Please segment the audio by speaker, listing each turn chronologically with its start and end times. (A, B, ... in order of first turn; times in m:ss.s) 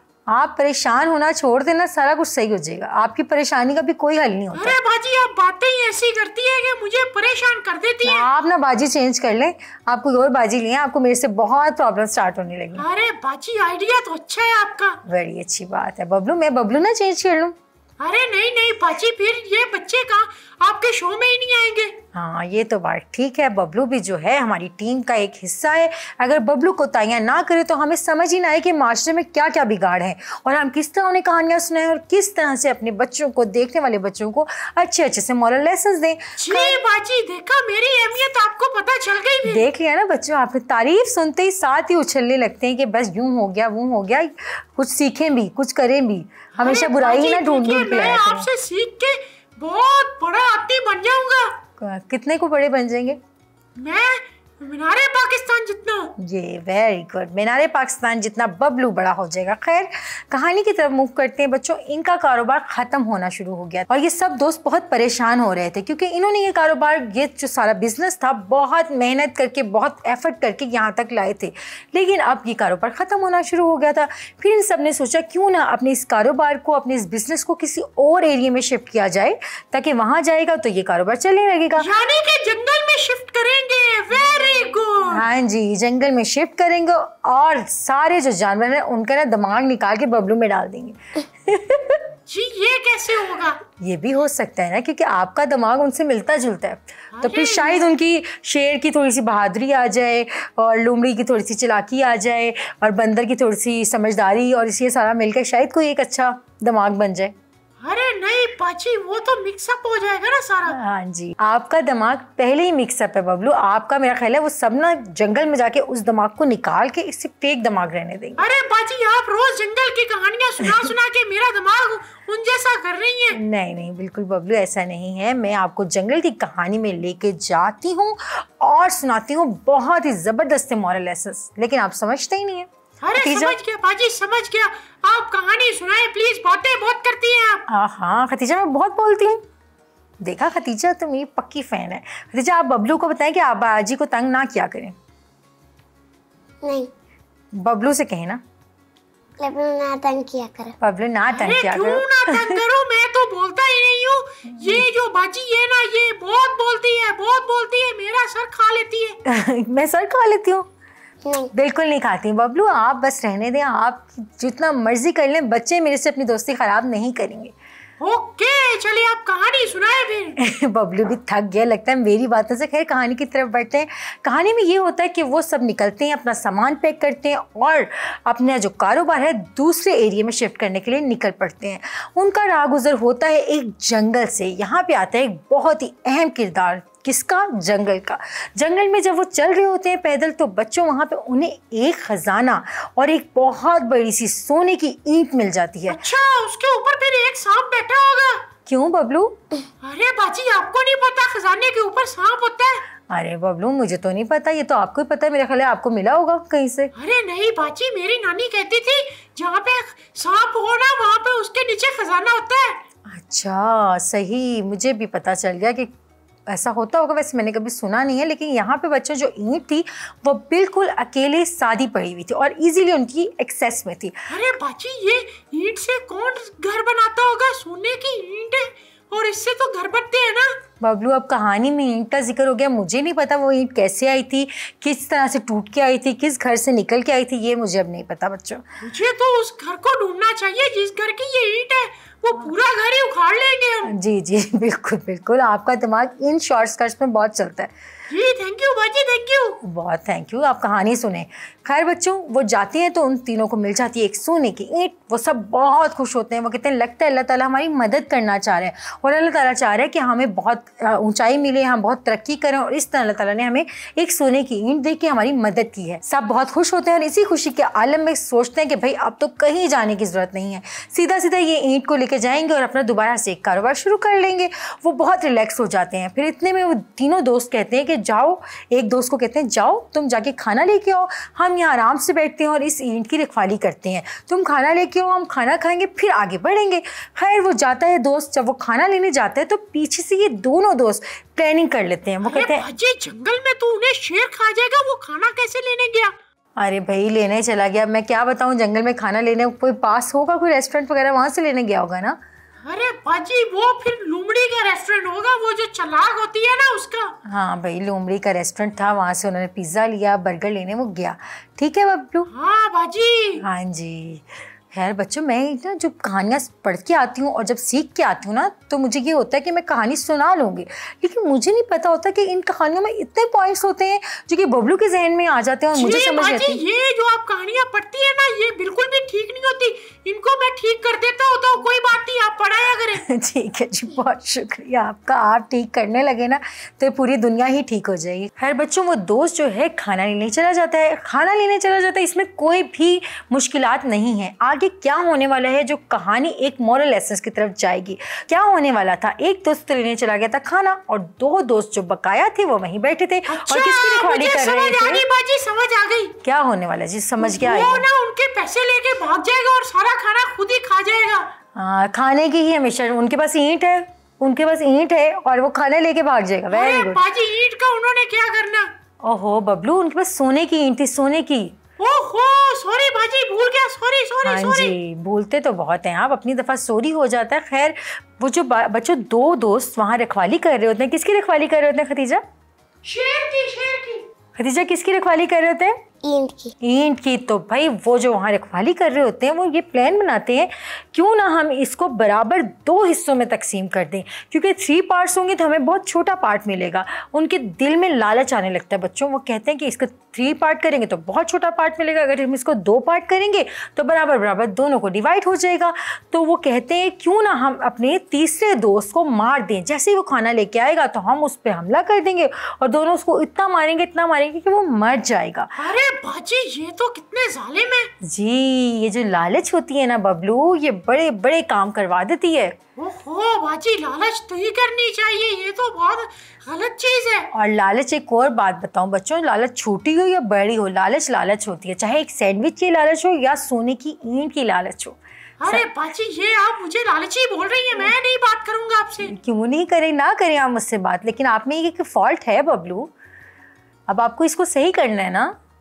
0:00.3-0:04.8 A
0:04.5-0:08.2 B
0:08.0-0:12.8 A
0:12.8-0:15.0 B
0:15.1-0:17.5 A
0:18.0-0:22.0 B
0:22.1-0:36.8 A
0:36.4-0:39.6 B
0:39.5-0:48.5 A
0:46.5-0:51.5 B
0:51.8-0:53.2 A
0:53.8-0:56.1 B
0:56.2-1:21.9 A
1:21.8-1:25.2 B
1:25.1-1:32.0 A
1:32.3-1:33.6 B
1:33.8-1:47.3 A
1:37.1-1:37.8 B
1:47.8-1:50.8 B
1:50.7-1:58.4 A
1:58.4-2:03.4 B
2:03.3-2:13.6 A
2:13.0-2:17.6 B
2:17.7-2:19.4 A
2:20.2-2:25.0 A
2:26.6-2:26.9 C
2:27.5-2:28.4 A
2:29.4-2:30.8 C
2:30.8-2:32.5 A
2:31.3-2:39.2 B
2:34.5-2:34.8 A
2:39.2-2:40.7 A
2:41.2-2:41.5 C
2:41.5-2:47.5 A
2:48.0-2:50.4 B
2:50.4-3:16.0 A
3:15.9-3:18.4 B
3:18.7-3:19.4 A
3:19.8-3:22.8 B
3:23.1-3:26.9 A
3:26.9-3:32.8 B
3:33.1-3:35.9 A
3:36.5-3:44.2 A
3:44.3-3:50.5 B
3:50.8-3:58.6 A
3:58.8-4:03.9 B
4:03.9-4:07.7 A
4:08.1-4:09.6 B
4:09.6-4:52.6 A
4:52.2-4:56.1 B
4:56.6-5:02.2 A
5:02.6-5:07.1 B
5:07.3-5:12.3 A
5:12.3-5:13.4 B
5:13.4-5:26.6 A
5:25.7-5:33.0 B
5:33.0-5:55.0 A
5:53.3-5:56.1 B
5:56.2-5:57.8 A
5:57.2-6:01.3 B
6:01.5-6:07.0 A
6:06.5-6:08.7 B
6:09.0-6:11.6 A
6:11.8-6:14.7 B
6:14.2-6:22.2 A
6:22.8-6:24.0 B
6:24.4-6:25.8 A
6:26.0-6:26.5 C
6:26.6-6:55.5 A
6:55.6-6:57.9 B
6:58.0-7:02.5 A
7:02.8-7:07.3 B
7:07.3-7:15.7 A
7:15.4-7:19.1 B
7:19.0-7:22.9 A
7:23.9-7:25.3 A